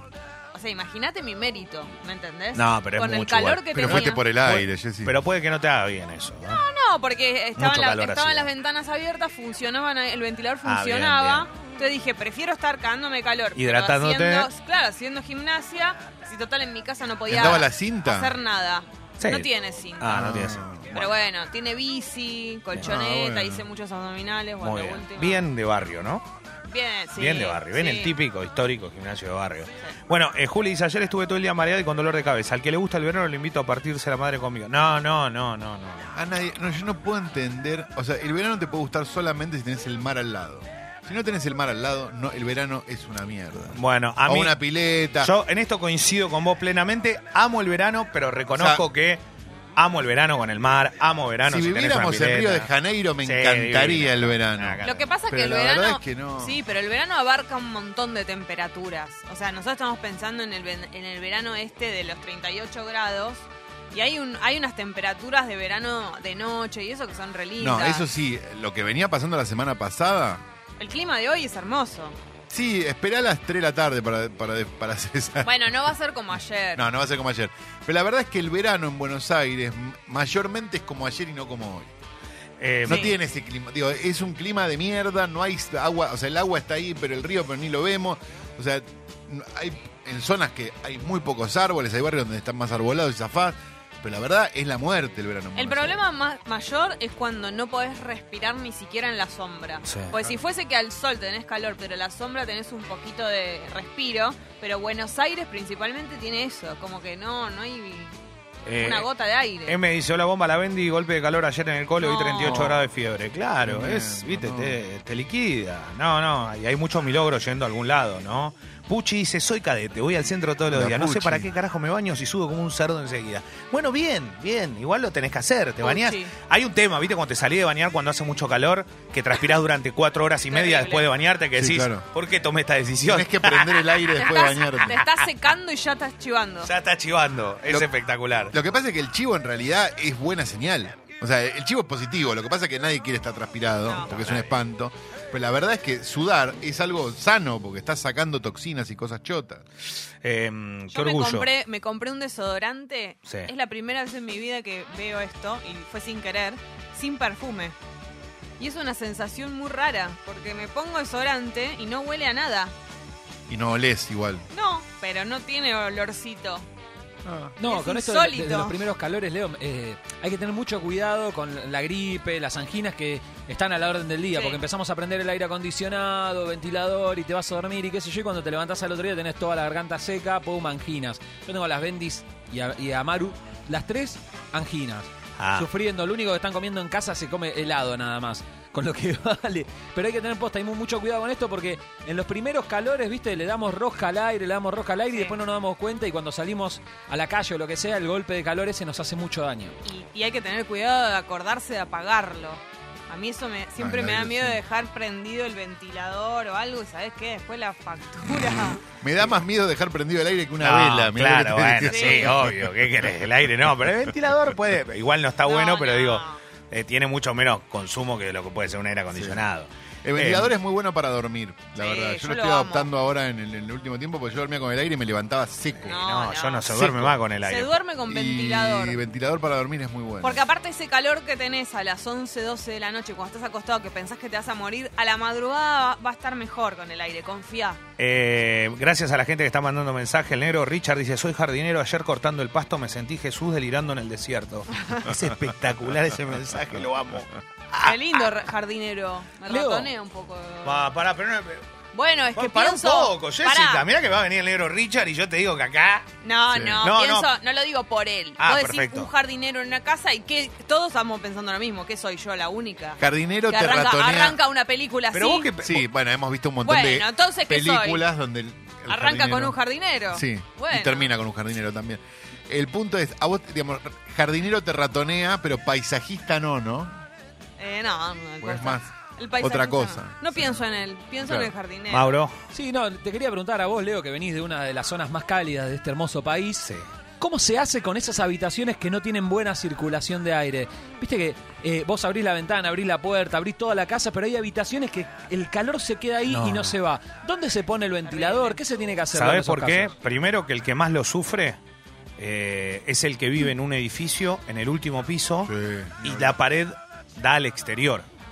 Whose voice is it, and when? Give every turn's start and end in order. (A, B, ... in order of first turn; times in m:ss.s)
0:00.5-0:04.2 A
0:02.6-0:06.6 B
0:03.8-0:05.2 C
0:06.5-0:20.1 A
0:07.6-0:08.5 B
0:10.6-0:11.5 B
0:13.6-0:14.5 B
0:17.3-0:18.4 C
0:19.2-0:19.5 B
0:20.0-0:21.1 B
0:20.1-0:21.0 C
0:20.9-0:25.4 A
0:22.8-0:23.6 C
0:24.6-0:26.3 B
0:26.6-0:28.1 A
0:27.2-0:36.1 B
0:36.2-0:45.3 C
0:43.8-0:44.6 B
0:45.2-0:49.2 B
0:48.6-0:48.9 C
0:49.8-0:52.7 B
0:51.5-0:56.6 C
0:53.2-0:55.1 B
0:54.8-1:08.1 A
1:07.6-1:10.4 C
1:10.8-1:12.2 A
1:12.5-1:15.5 C
1:15.4-1:16.8 A
1:16.8-1:21.9 C
1:22.6-1:23.1 B
1:22.8-1:36.0 C
1:22.9-1:23.2 A
1:35.6-1:48.2 A
1:39.8-1:40.2 B
1:48.6-1:49.1 B
1:48.8-1:49.8 A
1:49.7-2:14.1 B
1:52.0-1:52.7 A
1:52.4-1:52.8 C
1:53.6-1:54.8 C
2:00.7-2:01.5 C
2:05.8-2:06.3 A
2:10.5-2:11.1 A
2:11.6-2:12.1 C
2:13.0-2:15.0 C
2:14.2-2:16.7 A
2:14.8-2:15.2 B
2:16.6-2:18.6 B
2:18.5-2:29.6 C
2:23.9-2:24.1 A
2:24.1-2:24.6 B
2:30.2-2:31.5 B
2:30.9-2:37.8 A
2:38.6-2:42.7 A
2:43.5-2:44.5 C
2:44.5-2:46.7 A
2:47.2-2:47.6 C
2:47.6-3:19.8 D
2:47.6-2:48.8 A
2:54.3-2:54.6 A
3:05.4-3:05.7 B
3:15.1-3:15.4 A
3:19.8-3:28.8 A
3:23.8-3:24.6 C
3:29.0-3:33.1 C
3:30.6-3:40.5 B
3:31.9-3:32.3 A
3:35.4-3:36.4 A
3:39.1-3:39.4 C
3:40.0-3:46.0 C
3:41.8-3:42.9 A
3:45.8-3:46.7 A
3:45.9-3:47.8 B
3:46.7-3:47.2 C
3:47.4-3:49.0 A
3:48.1-3:50.4 C
3:50.2-3:57.8 A
3:58.0-4:08.2 B
4:07.8-4:10.9 A
4:09.5-4:09.9 D
4:10.6-4:11.6 B
4:11.9-4:13.9 A
4:12.4-4:16.1 B
4:16.2-4:25.5 A
4:16.5-4:16.8 C
4:16.8-4:17.3 B
4:18.4-4:19.1 B
4:23.0-4:24.4 C
4:25.1-4:25.9 B
4:25.6-4:29.6 C
4:26.6-4:28.0 A
4:28.9-4:31.1 A
4:30.1-4:37.0 C
4:37.6-4:42.1 A
4:38.4-4:38.9 C
4:39.4-4:40.5 C
4:41.2-4:41.5 C
4:41.9-4:42.3 B
4:42.5-4:46.7 D
4:47.2-4:59.9 D
4:56.3-4:56.8 B
4:58.0-4:58.6 A
4:59.1-5:01.6 B
5:02.2-5:08.1 B
5:05.4-5:06.4 C